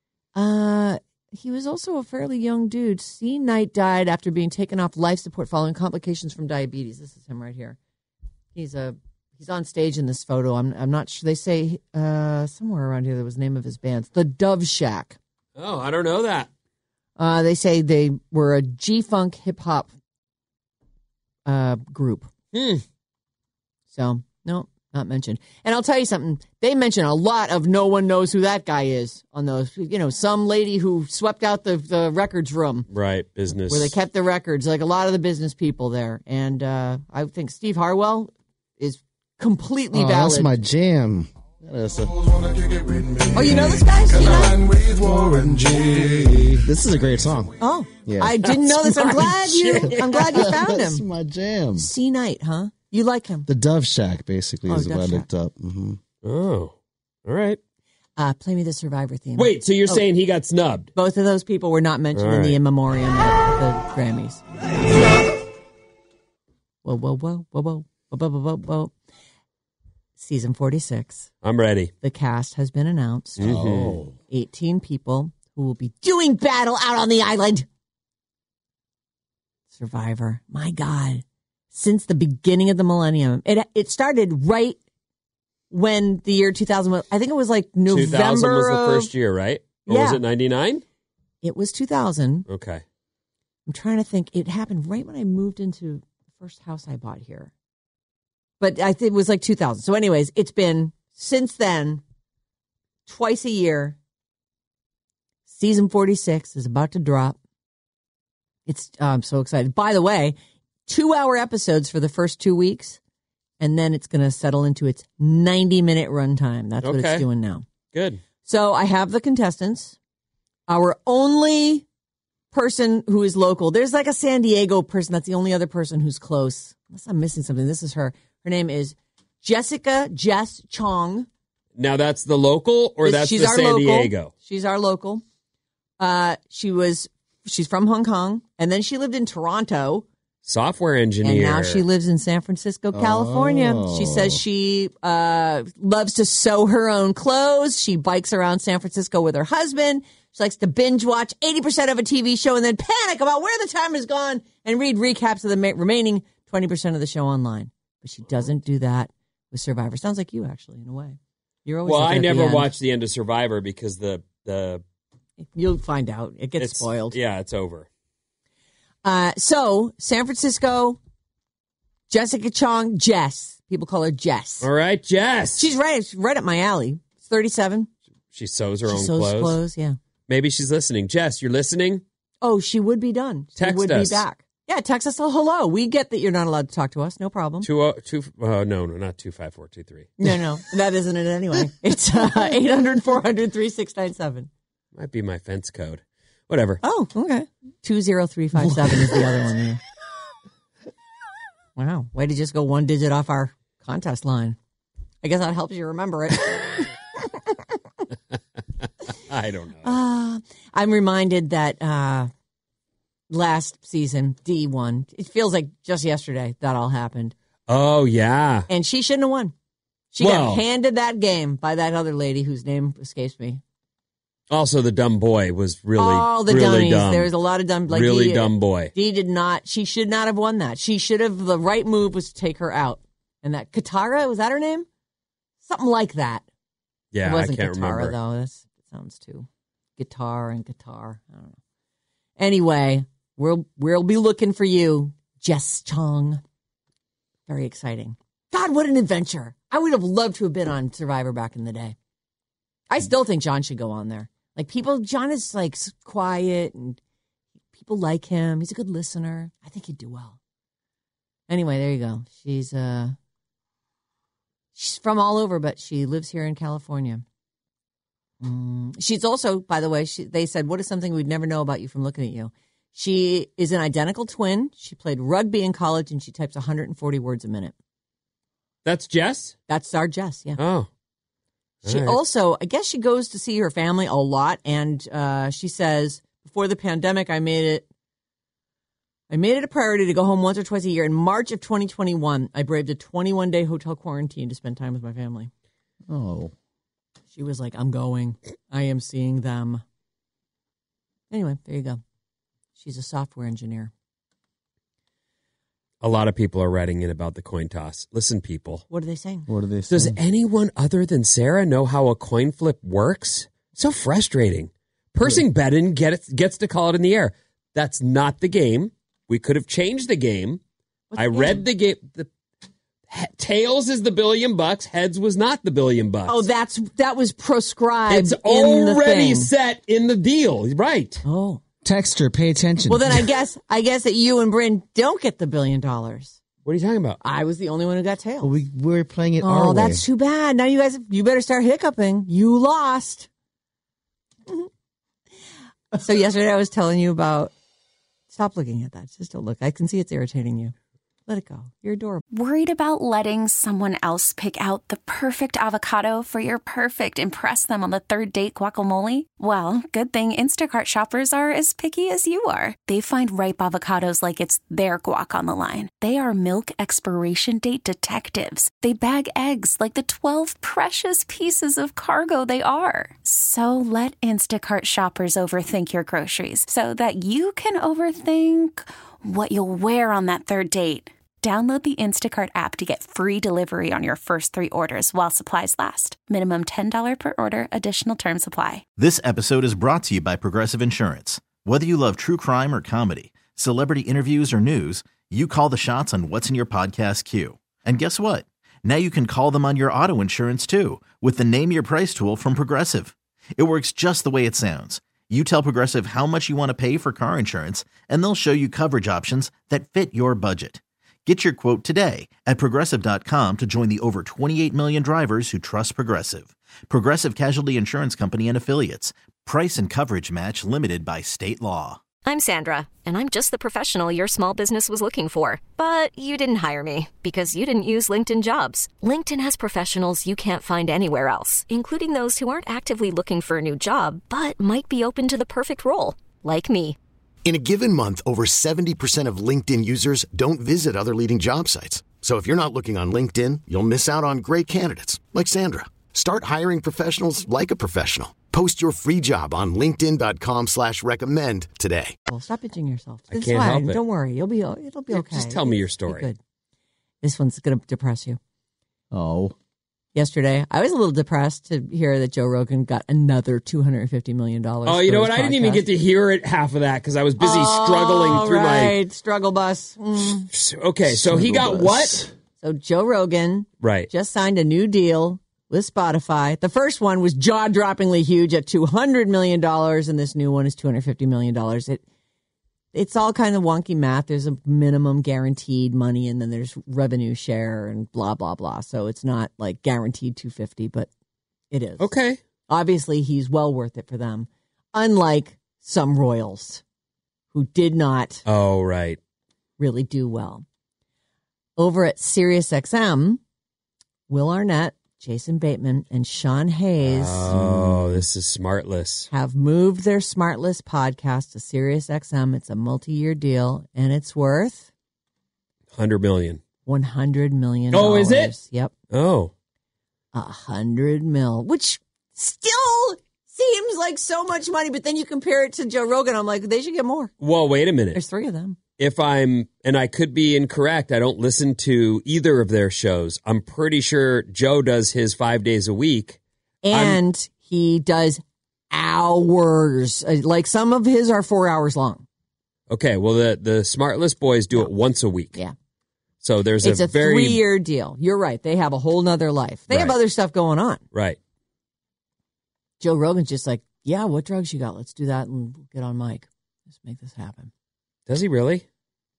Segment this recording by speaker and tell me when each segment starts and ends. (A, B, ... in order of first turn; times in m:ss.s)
0:00.4-0:07.8 A
0:08.6-0:15.2 A
0:15.6-0:16.5 B
0:17.2-0:19.9 A
0:21.5-0:22.3 A
0:22.5-0:22.8 B
0:23.9-0:32.9 A
0:32.9-0:34.0 B
0:33.7-0:40.5 A
0:39.9-0:43.7 C
0:43.3-0:44.7 A
0:44.4-0:48.5 C
0:47.6-0:51.0 A
0:48.5-0:50.5 B
0:50.2-0:51.9 C
0:51.8-0:53.5 A
0:53.5-0:56.0 C
0:54.7-0:55.3 A
0:56.2-0:56.7 B
0:57.2-0:57.6 B
0:58.2-1:00.0 A
0:59.4-1:00.9 B
1:01.0-1:04.4 A
1:02.1-1:02.6 B
1:06.8-1:08.9 A
1:10.2-1:11.3 A
1:11.4-1:11.9 B
1:12.0-1:13.5 A
1:13.4-1:14.0 B
1:13.4-1:14.1 C
1:14.3-1:17.7 A
1:19.7-1:24.8 A
1:25.7-1:29.1 A
1:27.9-1:30.8 B
1:29.9-1:30.2 A
1:31.4-1:32.5 A
1:32.5-1:32.8 B
1:33.7-1:37.5 A
1:38.6-1:42.0 A
1:43.1-1:44.0 A
1:45.5-1:47.4 A
1:48.7-1:50.4 A
1:50.9-1:53.0 A
1:53.6-1:57.6 A
1:56.8-1:57.2 B
1:57.9-1:58.2 B
1:58.4-2:00.0 A
2:00.7-2:01.8 A
2:02.5-2:11.3 A
2:11.8-2:14.3 B
2:13.0-2:15.2 A
2:16.0-2:20.1 A
2:20.4-2:21.8 B
2:21.2-2:42.7 A
2:22.9-2:24.4 C
2:41.8-2:44.8 B
2:45.5-2:47.2 A
2:46.6-2:47.9 B
2:49.0-2:51.0 A
2:52.1-2:54.7 A
2:54.6-2:55.7 B
2:55.6-2:57.9 A
2:58.3-2:59.6 B
2:58.9-3:00.0 A
3:00.3-3:02.0 B
3:02.4-3:07.7 A
3:03.6-3:04.2 B
3:07.6-3:10.1 B
3:10.2-3:14.5 A
3:14.9-3:16.8 B
3:16.8-3:19.8 A
3:21.8-3:24.6 A
3:25.2-3:27.6 A
3:29.3-3:30.0 B
3:29.8-3:32.3 A
3:33.3-3:37.4 A
3:37.7-3:38.7 B
3:38.7-3:39.5 A
3:40.1-3:43.6 A
3:40.2-3:40.6 B
3:44.5-3:47.3 B
3:46.0-3:54.9 A
3:47.9-3:48.9 B
3:55.6-3:56.4 A
3:57.1-3:58.2 B
3:57.2-4:01.6 A
4:02.4-4:06.4 A
4:07.5-4:12.0 A
4:12.9-4:17.0 A
4:17.7-4:20.4 A
4:21.5-4:23.2 A
4:24.8-4:27.2 A
4:28.4-4:37.7 A
4:38.8-4:39.6 B
4:39.7-4:40.6 A
4:40.6-4:40.9 B
4:41.8-4:42.2 B
4:41.8-4:47.9 A
4:49.3-4:55.5 A
4:56.1-4:56.5 C
4:57.3-4:59.8 A
5:01.3-5:02.0 A
5:02.8-5:03.9 A
5:06.0-5:08.8 B
5:08.9-5:09.5 A
5:09.5-5:10.2 C
5:09.9-5:20.6 B
5:21.1-5:21.6 A
5:21.2-5:22.3 B
5:23.1-5:26.5 B
5:26.3-5:29.5 A
5:28.1-5:31.2 B
5:31.2-5:31.6 A
5:31.8-5:33.3 C
5:32.9-5:36.4 A
5:36.6-5:37.2 B
5:37.2-5:38.5 A
5:38.4-5:40.0 C
5:39.4-5:43.3 A
5:46.0-5:47.5 A
5:48.3-5:50.7 A
5:51.3-5:52.2 A
5:52.3-6:28.8 D
6:29.0-7:02.0 E
7:02.2-7:17.0 F
7:17.4-7:32.2 G
7:32.3-7:36.4 A
7:33.3-7:34.0 B
7:35.1-7:36.2 B
7:37.2-7:38.4 A
7:39.1-7:39.5 C
7:40.2-7:45.8 A
7:44.9-7:49.0 B
7:47.4-7:50.5 A
7:50.5-7:52.2 B
7:51.0-7:52.3 C
7:52.6-8:02.0 A
7:53.8-7:54.1 B
8:02.9-8:11.1 A
8:11.7-8:12.1 A
8:12.0-8:12.4 B
8:12.7-8:16.8 A
8:17.5-8:18.4 A
8:18.5-8:19.2 B
8:19.8-8:20.6 A
8:21.8-8:23.4 A
8:24.3-8:27.5 A
8:27.0-8:29.3 B
8:27.5-8:28.2 C
8:29.3-8:34.9 A
8:35.9-8:36.6 B
8:36.9-8:38.9 A
8:37.9-8:38.5 B
8:39.1-8:39.5 B
8:40.3-8:47.3 A
8:47.4-8:48.2 B
8:48.1-8:48.8 A
8:49.0-8:56.4 B
8:56.8-9:02.2 A
8:56.9-8:57.2 B
9:02.9-9:05.6 B
9:06.4-9:07.6 B
9:06.8-9:11.0 A
9:09.9-9:10.2 B
9:11.1-9:11.4 B
9:13.0-9:17.7 A
9:18.3-9:18.8 B